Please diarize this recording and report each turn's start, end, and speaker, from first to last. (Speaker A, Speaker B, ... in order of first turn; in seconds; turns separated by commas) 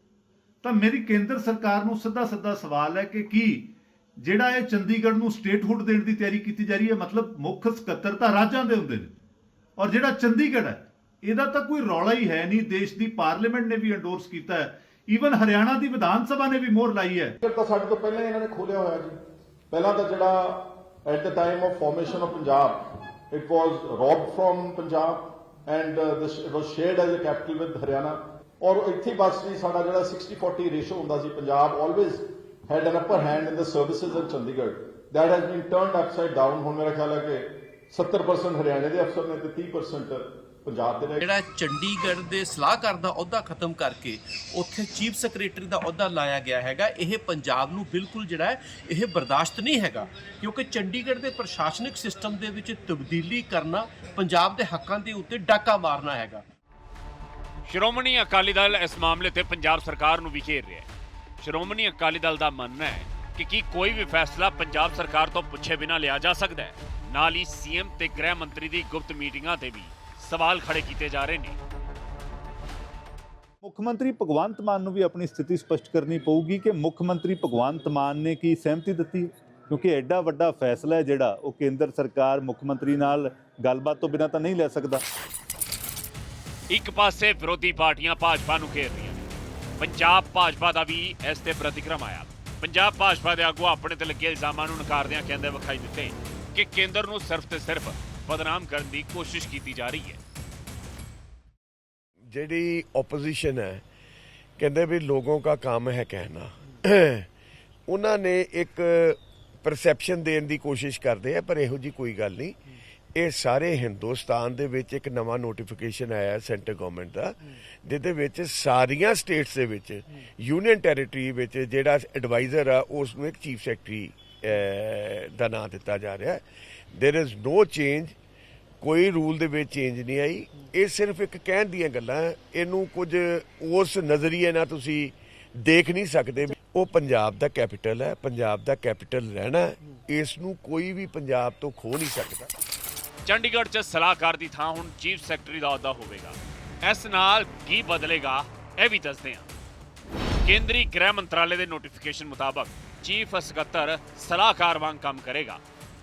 Speaker A: 0.6-9.1, Speaker A: 9.8-17.3, Speaker B: 17.4-19.1, Speaker B: 19.7-41.2, Speaker C: 41.2-56.4, Speaker D: 57.6-60.9, Speaker D: 61.4-71.6, Speaker E: 73.6-85.0, Speaker D: 86.7-100.2, Speaker F: 102.3-103.8, Speaker F: 104.6-107.3, Speaker F: 107.9-112.6, Speaker F: 113.1-128.1, Speaker F: 128.8-142.5, Speaker D: 143.2-149.5, Speaker D: 150.4-155.6